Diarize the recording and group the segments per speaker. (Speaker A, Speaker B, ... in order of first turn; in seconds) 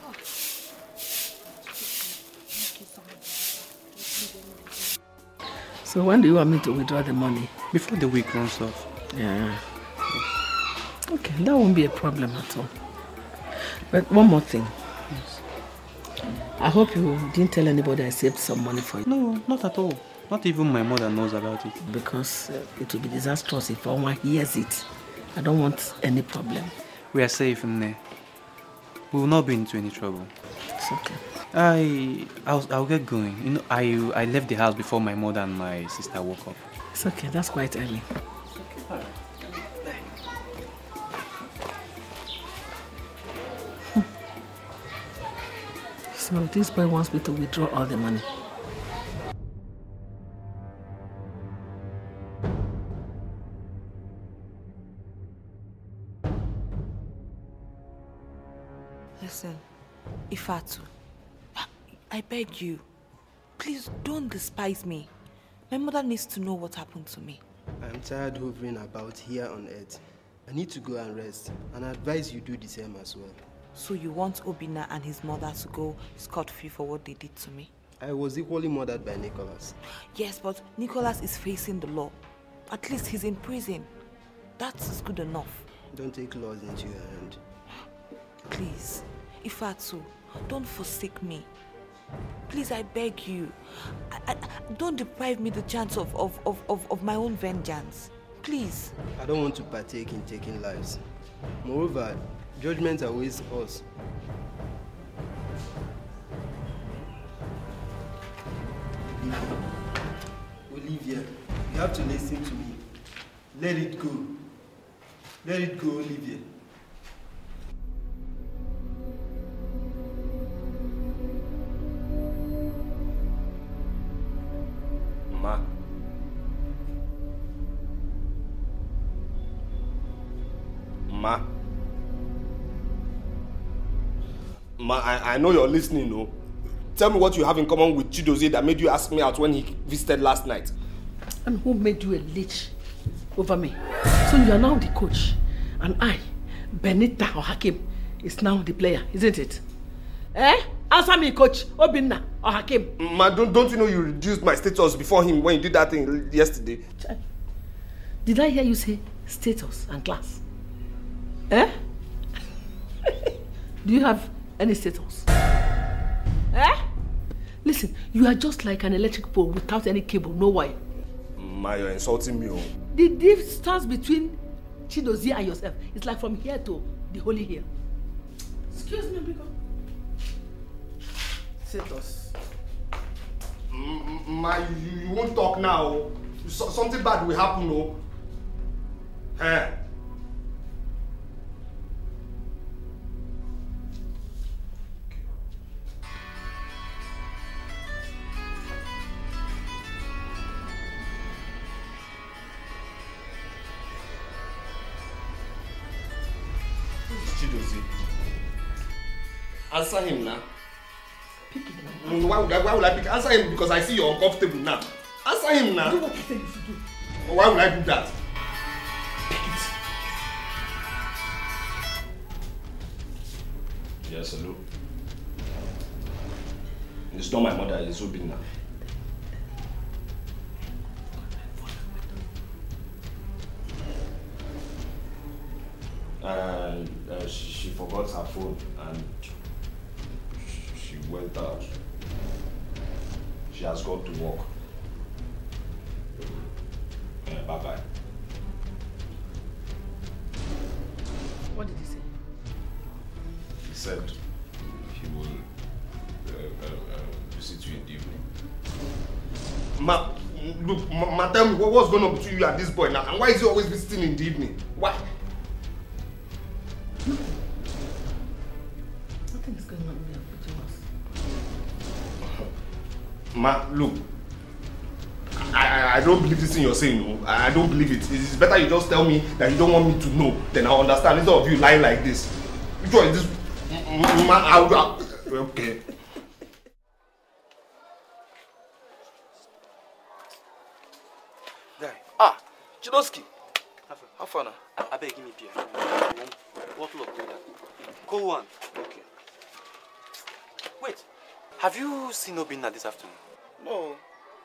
Speaker A: 5.8-7.5, 9.1-9.7, 11.1-12.7, 13.6-14.8, 16.6-19.0, 21.8-26.7, 30.8-31.2, 36.9-38.0, 46.1-48.3, 141.4-142.7, 143.4-149.6, 150.3-152.9, 158.2-160.4, 163.8-165.3, 166.5-166.8, 167.6-170.8, 172.9-177.7, 178.7-179.5, 181.6-182.3, 231.4-232.0, 251.5-252.1, 267.1-267.4, 269.3-270.9
Speaker B: 7.7-8.9, 15.1-15.4, 19.1-21.8, 27.1-28.0, 29.1-30.3, 31.5-36.6, 38.5-39.2, 291.8-292.1, 294.8-297.4, 298.0-298.5, 300.8-301.1, 301.6-303.2
Speaker C: 59.2-59.6, 60.3-60.9, 61.6-62.9, 63.6-65.1, 65.7-67.4, 73.7-77.7, 79.8-82.2, 82.7-83.9, 84.6-85.6, 88.5-91.5, 92.5-99.0
Speaker D: 67.8-73.4, 78.0-79.7, 85.9-87.4, 99.2-101.0, 101.6-103.8, 109.1-109.6, 110.7-112.8, 113.5-114.4, 115.4-116.5
Speaker E: 125.3-125.6, 131.1-131.4, 134.8-136.3, 136.9-140.7, 153.0-156.8, 171.4-172.7, 183.7-188.0, 189.4-189.8, 207.1-207.9, 209.7-210.4, 212.0-216.0, 217.2-218.1, 224.0-224.6, 227.1-228.4, 236.2-239.1, 240.4-241.7, 243.5-244.5, 246.2-246.5, 247.2-247.8, 253.6-254.2, 254.9-255.4, 256.2-258.2, 259.8-265.0, 273.4-274.0, 275.4-285.8
Speaker F: 292.2-293.3, 294.1-294.6, 298.7-299.1, 303.6-304.0